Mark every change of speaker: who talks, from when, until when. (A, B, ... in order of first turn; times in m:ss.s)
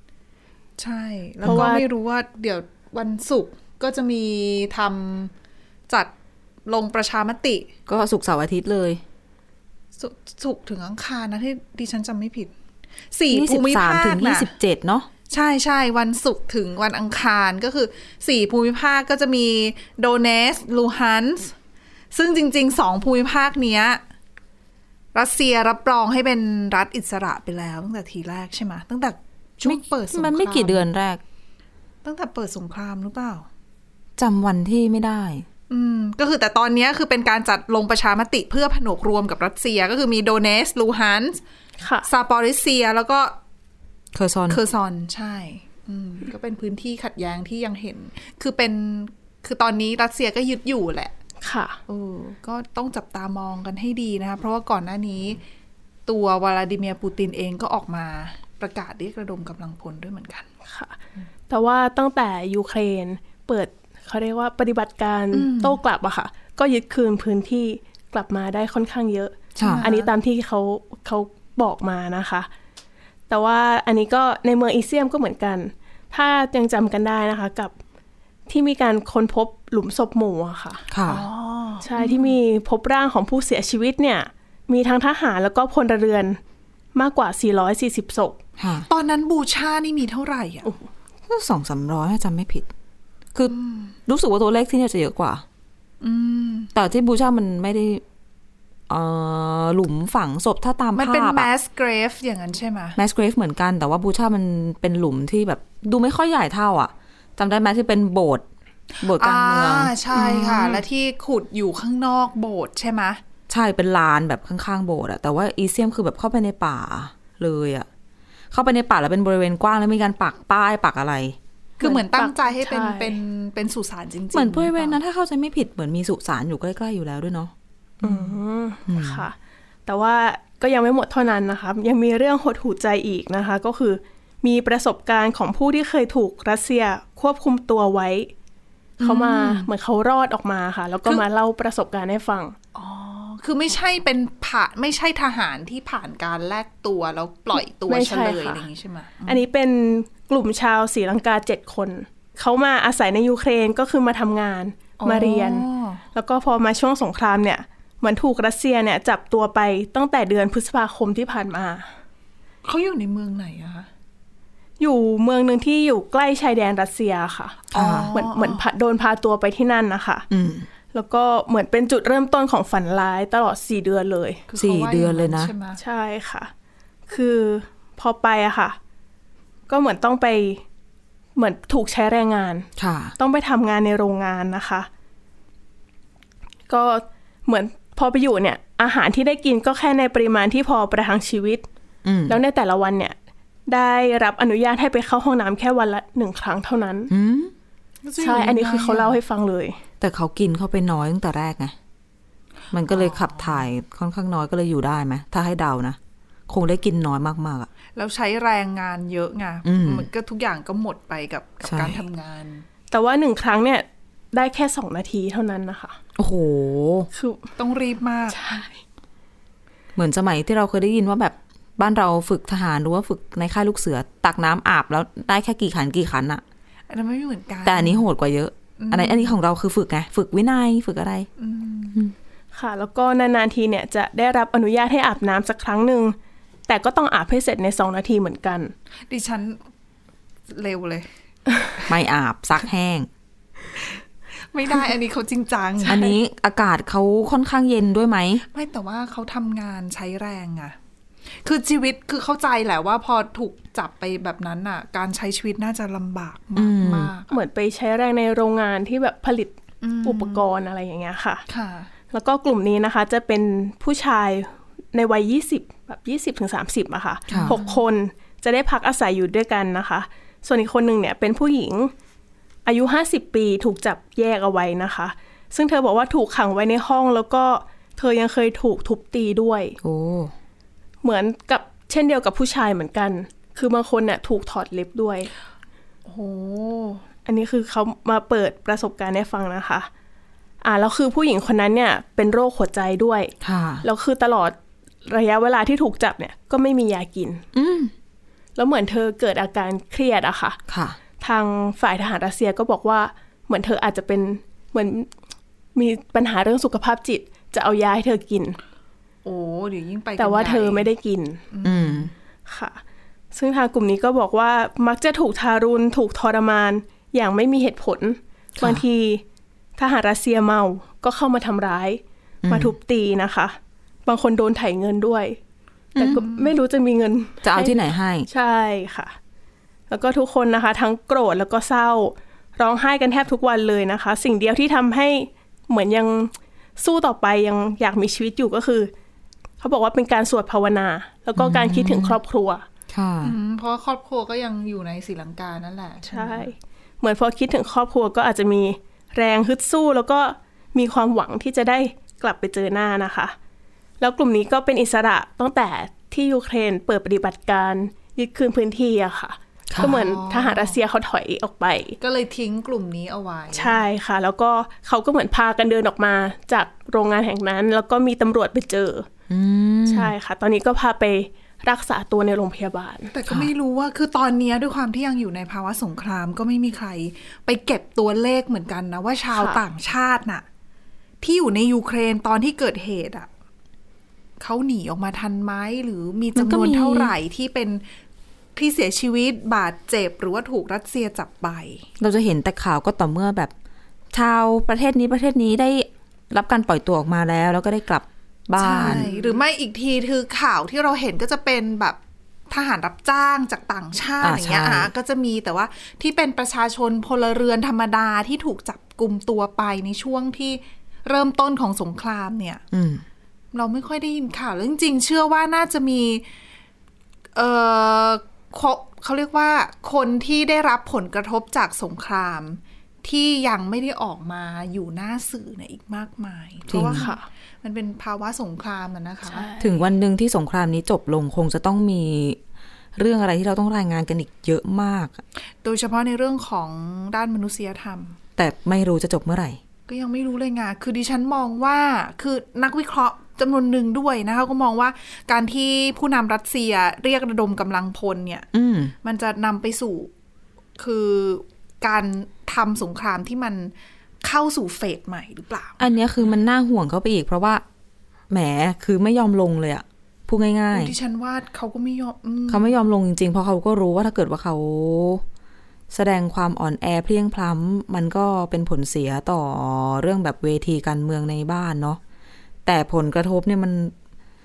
0:00.8-0:05.3 A
0:01.4-0:01.8 B
0:06.6-0:07.7 A
0:07.9-0:09.0 C
0:10.0-0:12.5 A
0:13.1-0:14.5 A
0:13.3-0:15.1 C
0:15.3-0:21.5 A
0:22.1-0:24.0 A
0:25.1-0:30.8 A
0:29.6-0:31.2 C
0:32.0-0:33.4 A
0:34.2-0:35.4 C
0:35.7-0:41.4 A
0:41.8-0:42.0 B
0:42.0-0:43.4 A
0:44.1-0:44.6 C
0:44.5-0:51.1 A
0:51.4-0:51.8 B
0:51.9-0:55.4 A
0:56.1-1:00.5 A
1:00.7-1:01.0 B
1:01.5-1:12.5 B
1:05.3-1:05.8 A
1:09.6-1:09.8 C
1:09.6-1:10.1 A
1:13.3-1:17.7 B
1:18.5-1:20.8 B
1:20.9-1:21.2 C
1:21.1-1:22.3 A
1:21.8-1:26.4 B
1:26.9-1:28.4 B
1:28.6-1:28.9 C
1:28.9-1:30.7 A
1:31.3-1:32.7 C
1:33.5-1:33.9 A
1:34.1-1:35.4 C
1:36.0-1:36.7 A
1:36.7-1:38.0 C
1:38.9-1:41.5 C
1:40.9-1:43.0 A
1:43.0-1:48.4 C
1:48.9-1:53.2 A
1:49.0-1:50.7 C
1:50.3-1:50.7 B
1:53.5-1:57.9 C
1:58.5-2:01.4 C
2:01.8-2:05.0 A
2:01.8-2:03.2 B
2:04.3-2:07.5 C
2:08.0-2:09.3 B
2:08.8-2:09.3 C
2:09.9-2:18.3 B
2:19.0-2:19.7 A
2:19.0-2:22.6 B
2:22.7-2:29.4 A
2:27.9-2:28.6 B
2:29.3-2:41.9 B
2:35.0-2:36.0 A
2:42.6-2:43.9 A
2:44.8-2:50.2 B
2:47.7-2:48.1 C
2:47.7-2:48.6 A
2:50.3-2:50.7 C
2:50.9-2:54.4 B
2:54.5-2:55.8 A
2:54.6-2:55.5 C
2:55.8-2:56.5 B
2:57.1-2:58.8 B
2:59.7-3:00.6 B
3:01.4-3:04.9 B
3:02.8-3:03.1 C
3:06.7-3:11.6 B
3:12.0-3:12.4 C
3:12.3-3:13.1 B
3:13.7-3:17.1 B
3:17.1-3:17.5 C
3:18.0-3:19.2 A
3:18.2-3:19.8 B
3:20.0-3:21.7 C
3:22.7-3:27.7 C
3:22.9-3:23.6 A
3:27.9-3:32.6 A
3:29.6-3:30.1 C
3:31.6-3:32.0 C
3:32.9-3:36.0 B
3:36.2-3:37.1 C
3:37.1-3:37.5 B
3:37.6-3:38.4 A
3:38.3-3:38.8 B
3:40.0-3:46.4 C
3:46.9-3:48.0 A
3:47.6-3:51.3 C
3:48.8-3:49.4 A
3:51.4-3:52.0 A
3:52.5-3:56.1 B
3:56.7-3:58.7 B
3:59.1-3:59.6 A
4:00.5-4:01.1 A
4:01.9-4:03.1 C
4:04.5-4:06.1 A
4:05.9-4:08.4 C
4:08.5-4:10.7 A
4:11.4-4:17.3 A
4:16.6-4:17.1 C
4:17.3-4:21.4 B
4:19.8-4:20.4 A
4:21.5-4:21.9 A
4:22.1-4:31.9 B
4:27.3-4:27.5 C
4:27.4-4:27.8 A
4:32.6-4:39.8 B
4:39.8-4:40.3 C
4:41.0-4:45.3 B
4:46.0-4:47.0 A
4:47.2-4:49.9 B
4:50.6-4:57.4 B
4:53.4-4:53.8 C
4:57.5-4:57.9 C
4:58.6-5:00.6 B
5:00.7-5:01.0 C
5:01.2-5:05.1 B
5:05.7-5:08.6 B
5:09.2-5:10.9 A
5:10.2-5:11.4 B
5:11.5-5:12.1 A
5:11.6-5:12.1 C
5:12.5-5:12.8 B
5:13.3-5:19.2 B
5:18.6-5:18.8 C
5:19.8-5:25.4 B
5:22.4-5:22.8 C
5:26.0-5:27.7 B
5:26.0-5:26.5 A
5:27.4-5:28.3 C
5:28.3-5:29.1 B
5:29.9-5:38.9 B
5:39.6-5:42.6 B
5:41.4-5:42.2 C
5:42.9-5:43.3 C
5:43.2-5:46.5 A
5:46.1-5:53.3 B
5:54.0-6:02.0 B
5:59.8-6:00.8 A
6:02.0-6:03.8 A
6:03.5-6:09.1 B
6:09.3-6:10.1 C
6:09.9-6:13.1 B
6:13.1-6:20.4 A
6:19.3-6:19.6 B
6:21.2-6:23.3 A
6:24.4-6:27.8 A
6:26.3-6:27.1 C
6:28.6-6:31.9 A
6:32.0-6:33.5 C
6:34.1-6:39.0 C
6:38.6-6:42.0 A
6:38.8-6:39.4 B
6:42.5-6:52.6 A
6:44.2-6:44.9 C
6:52.7-6:53.0 C
6:53.5-6:56.2 A
6:57.3-7:09.5 A
7:06.7-7:07.1 C
7:06.8-7:07.2 B
7:09.2-7:09.8 B
7:09.6-7:12.4 C
7:13.0-7:15.2 C
7:15.6-7:18.2 A
7:18.4-7:19.6 C
7:19.9-7:28.5 A
7:28.5-7:28.9 C
7:29.0-7:30.1 A
7:30.8-7:35.8 A
7:35.8-7:37.6 C
7:38.3-7:40.9 C
7:40.7-7:42.7 A
7:42.5-7:45.2 C
7:45.9-7:52.0 C
7:52.6-7:53.9 C